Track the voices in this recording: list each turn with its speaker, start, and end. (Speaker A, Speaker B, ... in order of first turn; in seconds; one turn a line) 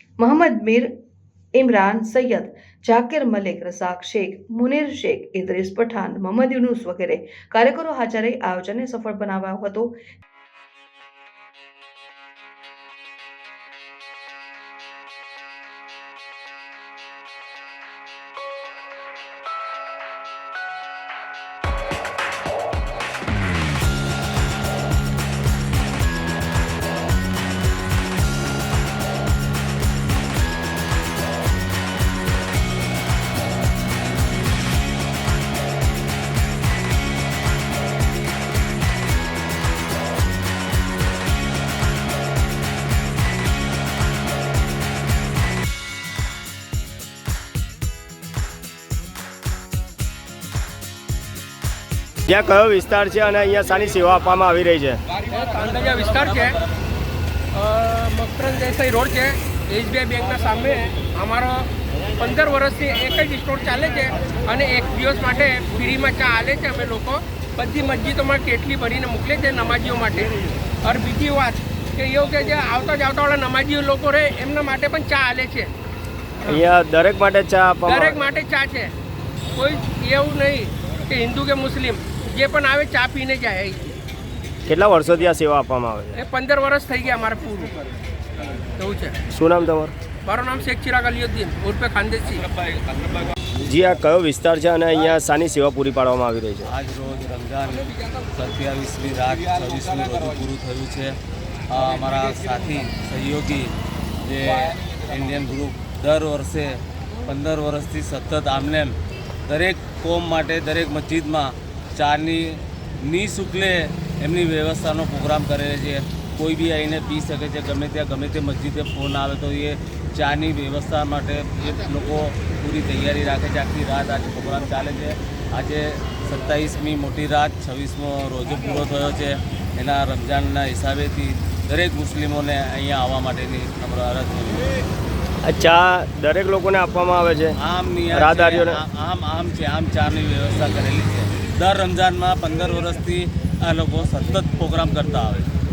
Speaker A: 0.2-0.9
Speaker A: 1.6-9.9
Speaker B: 52.2-55.0
Speaker C: 55.2-56.6
Speaker C: 57.5-75.7
Speaker B: 76.5-78.2
Speaker C: 77.8-78.9
Speaker C: 79.5-83.9
Speaker B: 84.7-86.2
Speaker C: 86.2-87.8
Speaker C: 88.8-89.2
Speaker B: 89.3-89.9
Speaker C: 90.2-92.5
Speaker B: 93.6-96.7
Speaker D: 96.6-101.2
Speaker D: 101.7-109.0
Speaker D: 109.5-134.7
Speaker B: 135.4-137.6
Speaker D: 137.6-145.5
Speaker B: 138.1-138.8